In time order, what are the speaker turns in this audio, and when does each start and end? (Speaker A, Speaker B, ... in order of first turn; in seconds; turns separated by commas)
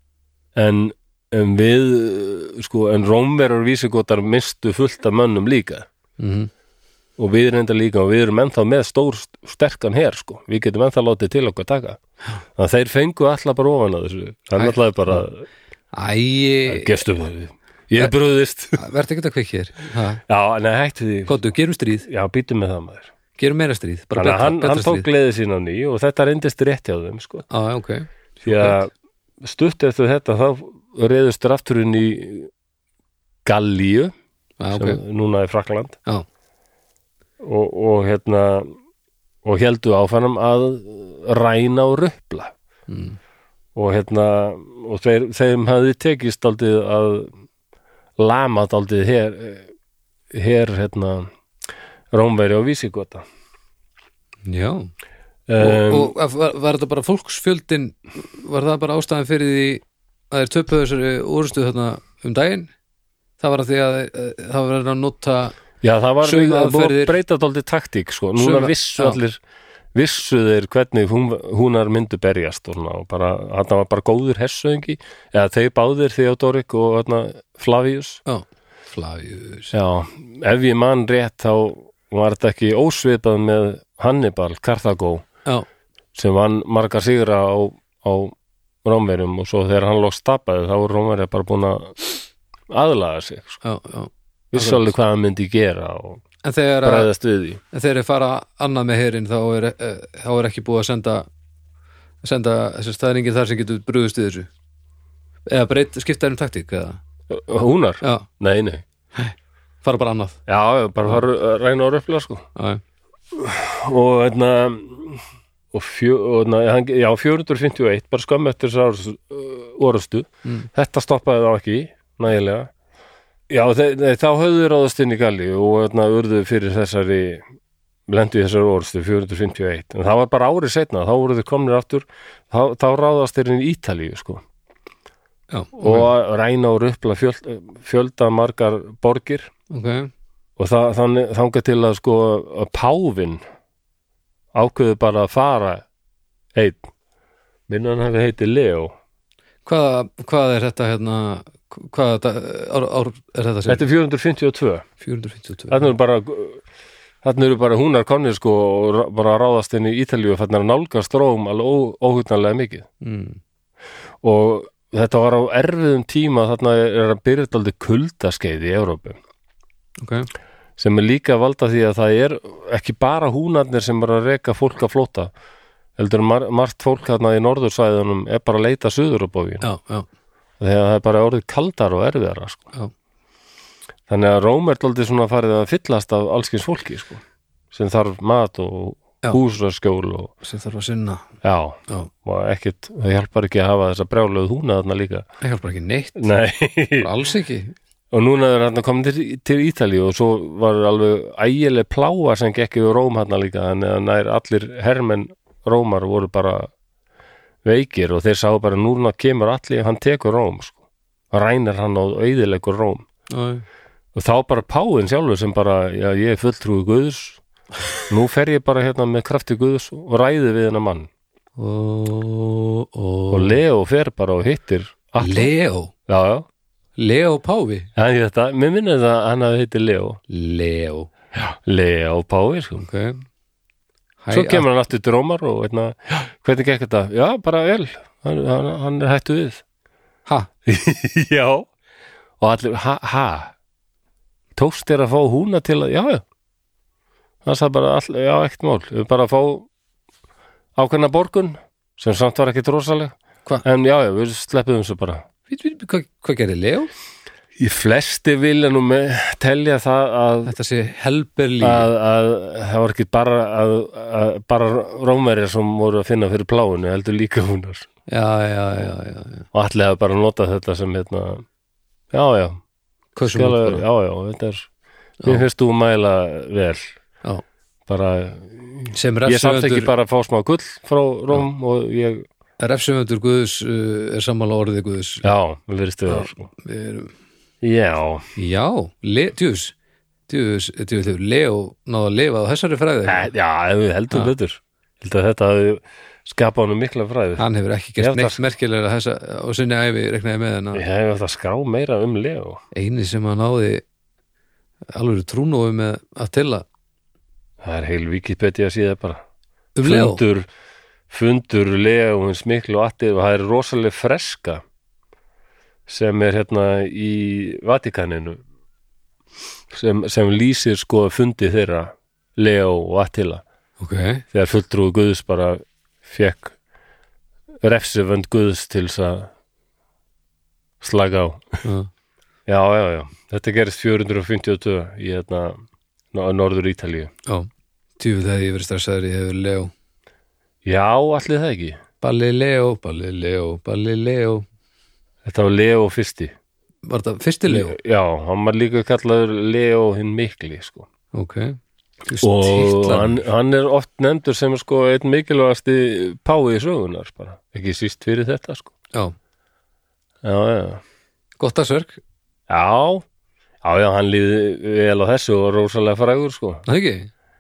Speaker A: 0.6-5.9, Speaker B: 6.2-6.5, Speaker A: 7.2-12.0, Speaker A: 12.6-15.5, Speaker B: 14.6-15.2, Speaker B: 15.9-17.0, Speaker A: 16.7-18.8, Speaker B: 18.8-20.2, Speaker A: 20.3-21.4, Speaker B: 21.3-22.1, Speaker A: 22.1-23.1, Speaker B: 23.4-25.1, Speaker A: 24.2-27.5, Speaker B: 27.5-28.8, Speaker A: 28.4-28.9, Speaker A: 29.4-32.5, Speaker A: 33.5-34.1, Speaker B: 34.6-35.0, Speaker A: 34.7-36.0, Speaker A: 37.4-38.7, Speaker A: 39.4-42.5, Speaker B: 42.9-43.2, Speaker A: 43.8-47.3, Speaker A: 48.2-49.7, Speaker A: 50.3-51.3, Speaker A: 52.1-53.2, Speaker B: 54.5-54.9, Speaker A: 55.5-56.1, Speaker B: 55.6-62.7, Speaker B: 63.4-65.6, Speaker A: 65.8-69.4, Speaker B: 66.2-67.2, Speaker B: 68.4-69.2, Speaker A: 70.0-78.2, Speaker B: 78.3-79.7, Speaker A: 79.7-85.3, Speaker A: 86.2-92.0, Speaker A: 92.7-93.6, Speaker B: 93.6-94.9, Speaker A: 94.5-96.2, Speaker B: 96.4-97.1, Speaker A: 96.8-97.6, Speaker B: 97.7-101.3, Speaker B: 102.2-104.5, Speaker B: 105.5-107.0, Speaker A: 107.3-108.8, Speaker B: 108.0-108.3, Speaker B: 109.2-110.4, Speaker A: 110.5-112.5, Speaker B: 112.6-112.8, Speaker A: 113.3-122.7, Speaker A: 123.5-127.4, Speaker A: 128.1-134.4, Speaker B: 135.5-136.1, Speaker A: 135.8-139.5, Speaker B: 139.7-140.1, Speaker A: 140.6-143.4, Speaker A: 144.5-145.8, Speaker A: 146.6-146.9, Speaker A: 147.7-148.9, Speaker B: 149.7-153.8, Speaker A: 153.7-154.9, Speaker B: 155.0-155.9, Speaker A: 155.7-156.6, Speaker A: 157.2-162.9, Speaker B: 163.0-163.4, Speaker A: 164.2-169.2, Speaker B: 170.0-170.3, Speaker A: 170.8-175.3, Speaker A: 176.0-179.7, Speaker B: 179.6-180.1, Speaker A: 180.6-182.7, Speaker A: 184.1-187.2, Speaker A: 187.7-190.3, Speaker B: 190.4-191.2, Speaker A: 191.4-195.3, Speaker B: 195.4-196.3, Speaker A: 196.2-197.1, Speaker B: 197.0-197.7, Speaker A: 198.1-206.7, Speaker A: 207.6-210.8, Speaker A: 211.3-213.1, Speaker B: 213.3-213.6, Speaker A: 214.2-217.4, Speaker A: 218.1-221.1, Speaker B: 221.6-223.6, Speaker A: 223.3-225.5, Speaker B: 225.2-225.9, Speaker A: 226.1-226.5, Speaker B: 227.0-227.9, Speaker A: 228.0-230.2, Speaker B: 230.3-231.1, Speaker A: 231.6-232.8, Speaker B: 232.8-233.2, Speaker B: 234.2-234.7, Speaker A: 234.3-239.6, Speaker A: 240.7-241.7, Speaker A: 242.4-243.5, Speaker A: 244.6-246.2, Speaker A: 247.4-249.7, Speaker A: 250.8-255.3, Speaker B: 255.5-256.9, Speaker A: 257.6-260.5, Speaker B: 260.5-261.9, Speaker A: 261.6-267.9, Speaker B: 268.1-269.5, Speaker A: 269.5-271.4, Speaker A: 272.1-272.6, Speaker B: 273.2-273.9, Speaker A: 273.3-274.7, Speaker A: 275.2-276.9, Speaker A: 277.9-282.3, Speaker B: 278.9-279.9, Speaker B: 282.6-285.3, Speaker A: 285.2-286.5, Speaker B: 286.1-287.1, Speaker A: 287.6-288.3, Speaker B: 288.4-289.8, Speaker B: 290.3-293.3, Speaker A: 293.1-297.4, Speaker B: 297.4-300.8, Speaker A: 298.0-298.4, Speaker A: 300.7-302.6, Speaker B: 302.7-303.8, Speaker B: 304.9-306.6, Speaker A: 307.6-309.2, Speaker B: 309.8-310.2, Speaker A: 309.8-310.5, Speaker A: 311.1-314.6, Speaker A: 315.9-318.4, Speaker A: 319.7-323.4, Speaker B: 323.8-324.2, Speaker A: 324.3-326.5, Speaker A: 327.6-329.3, Speaker A: 330.8-331.6, Speaker B: 331.6-331.9, Speaker A: 332.5-337.1, Speaker B: 337.3-339.7, Speaker A: 340.6-341.8, Speaker B: 342.0-344.5, Speaker A: 345.2-346.3, Speaker B: 346.9-347.8, Speaker A: 347.5-350.9, Speaker B: 351.1-353.2, Speaker A: 352.2-358.7, Speaker A: 360.2-360.8, Speaker B: 361.4-362.0, Speaker A: 362.5-363.1, Speaker A: 363.6-366.6, Speaker B: 366.7-367.1